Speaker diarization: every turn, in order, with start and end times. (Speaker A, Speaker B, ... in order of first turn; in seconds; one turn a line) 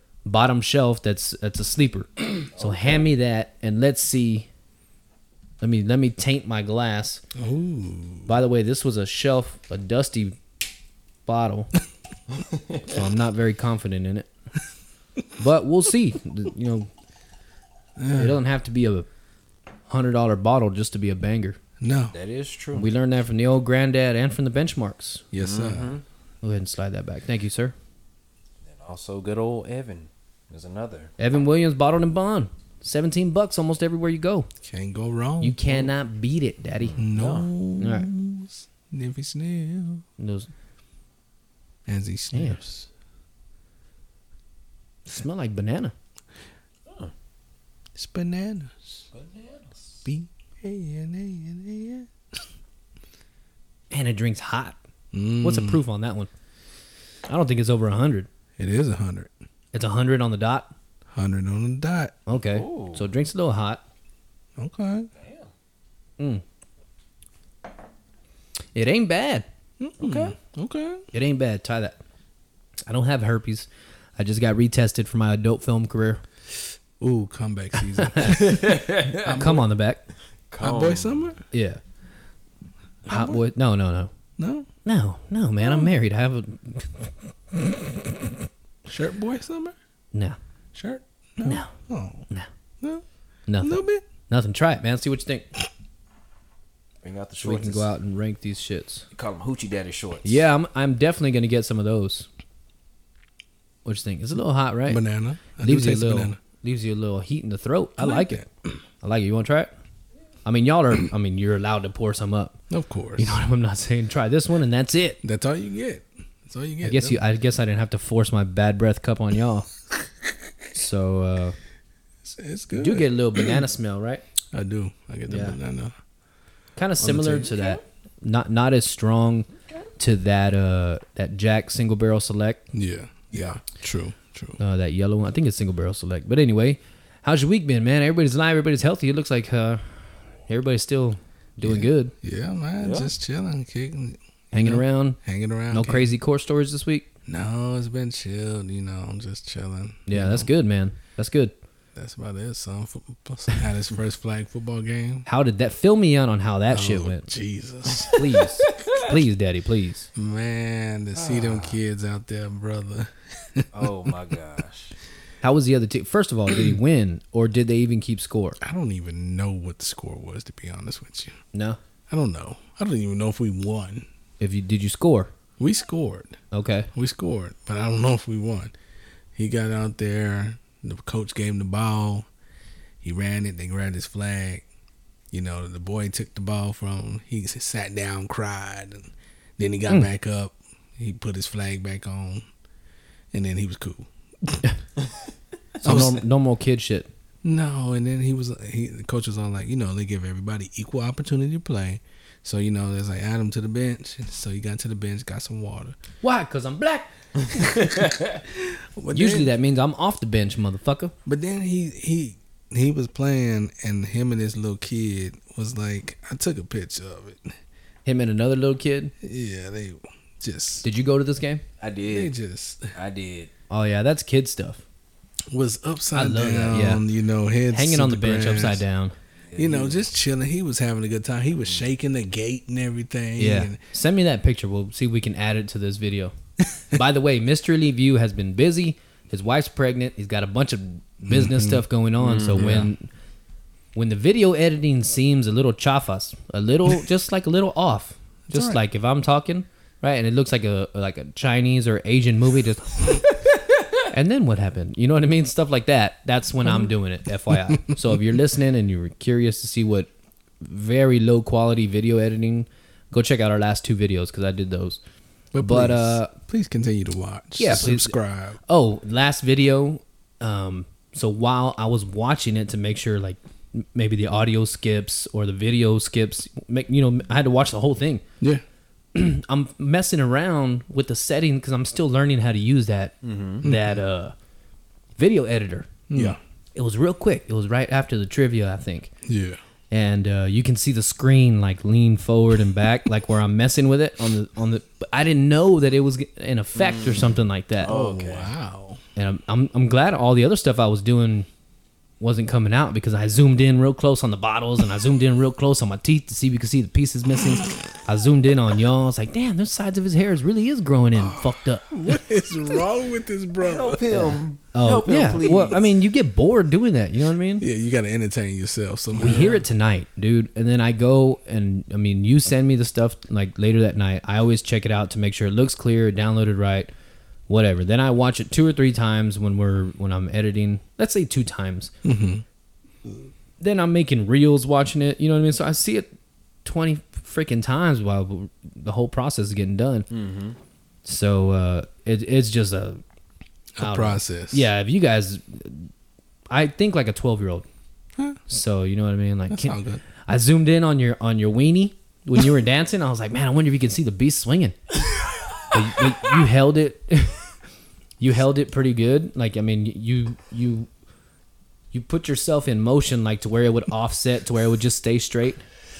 Speaker A: 0.2-4.5
Speaker B: 2.5-3.1
Speaker A: 5.6-7.2
Speaker C: 7.3-8.4
Speaker A: 8.2-10.4
Speaker A: 11.2-11.7
Speaker B: 12.5-12.9
Speaker A: 12.9-14.3
Speaker A: 15.4-16.9
Speaker C: 18.0-18.4
Speaker A: 18.1-19.1
Speaker A: 19.9-21.6
Speaker C: 21.8-22.1
Speaker B: 22.1-22.9
Speaker A: 22.7-25.2
Speaker C: 25.3-25.9
Speaker B: 25.4-26.0
Speaker A: 26.4-27.7
Speaker B: 28.6-31.1
Speaker A: 31.2-34.5
Speaker C: 34.6-35.6
Speaker A: 35.4-37.0
Speaker B: 36.8-37.5
Speaker C: 37.0-40.0
Speaker A: 37.8-38.1
Speaker A: 40.2-40.5
Speaker C: 41.9-42.9
Speaker A: 42.3-42.6
Speaker A: 45.0-45.9
Speaker B: 46.9-47.1
Speaker C: 47.9-48.8
Speaker B: 49.1-50.1
Speaker C: 50.0-52.1
Speaker A: 53.9-54.8
Speaker C: 55.1-55.8
Speaker A: 55.4-56.3
Speaker A: 57.3-58.3
Speaker C: 58.6-59.3
Speaker A: 59.7-60.7
Speaker C: 61.1-62.2
Speaker A: 62.3-63.8
Speaker B: 62.3-63.1
Speaker C: 64.6-65.1
Speaker B: 65.2-65.5
Speaker A: 68.7-69.5
Speaker C: 69.8-71.0
Speaker B: 70.0-70.3
Speaker A: 71.1-72.0
Speaker A: 72.8-76.2
Speaker C: 77.0-79.7
Speaker A: 78.0-78.5
Speaker B: 78.5-79.4
Speaker A: 79.3-80.0
Speaker B: 80.5-81.3
Speaker C: 80.6-81.4
Speaker A: 81.5-81.8
Speaker C: 83.0-83.4
Speaker A: 83.1-84.1
Speaker C: 84.4-84.7
Speaker A: 84.8-87.1
Speaker C: 85.6-85.9
Speaker C: 88.8-89.7
Speaker C: 90.7-92.3
Speaker A: 91.4-91.7
Speaker A: 93.5-95.5
Speaker C: 93.6-94.0
Speaker B: 97.0-97.9
Speaker A: 97.4-99.0
Speaker B: 99.1-100.4
Speaker A: 100.2-102.3
Speaker A: 103.8-105.0
Speaker C: 104.9-106.4
Speaker A: 105.6-108.4
Speaker C: 108.0-108.8
Speaker A: 109.0-109.7
Speaker A: 110.4-112.6
Speaker C: 112.7-113.4
Speaker A: 113.2-115.2
Speaker C: 115.2-117.2
Speaker A: 116.8-119.7
Speaker A: 120.7-121.5
Speaker C: 122.2-123.6
Speaker A: 122.7-124.2
Speaker C: 124.5-126.0
Speaker A: 125.3-125.6
Speaker A: 126.8-132.6
Speaker C: 127.0-127.5
Speaker C: 132.7-134.6
Speaker A: 134.6-142.1
Speaker C: 141.6-146.1
Speaker B: 142.8-143.1
Speaker A: 144.5-147.1
Speaker C: 147.2-150.5
Speaker A: 150.1-151.5
Speaker C: 151.9-155.3
Speaker A: 155.2-157.3
Speaker C: 156.7-158.3
Speaker A: 158.1-160.1
Speaker C: 160.2-164.1
Speaker B: 161.1-161.8
Speaker B: 163.7-164.9
Speaker A: 165.4-168.6
Speaker C: 168.6-171.4
Speaker A: 171.5-171.8
Speaker C: 172.1-174.1
Speaker A: 174.4-175.3
Speaker C: 175.6-176.4
Speaker A: 176.5-176.9
Speaker C: 176.9-178.7
Speaker C: 179.3-182.3
Speaker C: 183.0-184.6
Speaker C: 185.3-192.5
Speaker C: 193.3-194.6
Speaker A: 195.8-197.1
Speaker C: 195.8-196.2
Speaker C: 197.4-206.0
Speaker A: 206.2-207.1
Speaker C: 208.5-209.6
Speaker A: 209.1-211.1
Speaker C: 211.2-217.6
Speaker A: 218.0-219.1
Speaker C: 219.2-220.8
Speaker A: 220.8-221.6
Speaker B: 221.8-222.3
Speaker C: 222.1-222.9
Speaker B: 222.9-223.5
Speaker A: 223.7-224.8
Speaker C: 225.5-228.8
Speaker A: 226.1-227.0
Speaker A: 227.7-229.2
Speaker B: 229.5-230.0
Speaker C: 229.5-233.8
Speaker A: 233.4-243.1
Speaker C: 241.2-241.8
Speaker B: 242.2-242.8
Speaker C: 242.5-242.9
Speaker A: 243.9-253.5
Speaker C: 248.5-248.8
Speaker A: 254.1-260.1
Speaker C: 256.6-256.9
Speaker C: 257.5-258.4
Speaker A: 260.6-265.0
Speaker C: 265.5-268.6
Speaker A: 265.6-266.3
Speaker A: 267.6-278.2
Speaker A: 279.1-284.3
Speaker B: 283.2-283.6
Speaker C: 283.6-284.0
Speaker A: 285.2-289.1
Speaker C: 286.1-286.4
Speaker C: 289.2-289.6
Speaker A: 289.9-297.9
Speaker B: 296.7-298.5
Speaker C: 297.8-299.0
Speaker A: 299.1-301.5
Speaker A: 302.2-311.9
Speaker C: 307.5-308.0
Speaker C: 311.1-314.0
Speaker B: 313.6-315.9
Speaker A: 314.1-317.6
Speaker C: 317.6-319.6
Speaker A: 319.2-326.9
Speaker B: 319.2-319.6
Speaker A: 327.5-331.9
Speaker C: 332.0-332.4
Speaker A: 333.6-336.1
Speaker A: 336.6-340.1
Speaker B: 340.1-340.6
Speaker A: 341.0-343.0
Speaker C: 343.8-344.7
Speaker A: 343.8-345.9
Speaker A: 346.5-347.6
Speaker C: 348.2-348.4
Speaker A: 348.5-354.8
Speaker C: 349.5-350.0
Speaker A: 355.7-357.5
Speaker A: 358.2-360.9
Speaker A: 361.9-365.6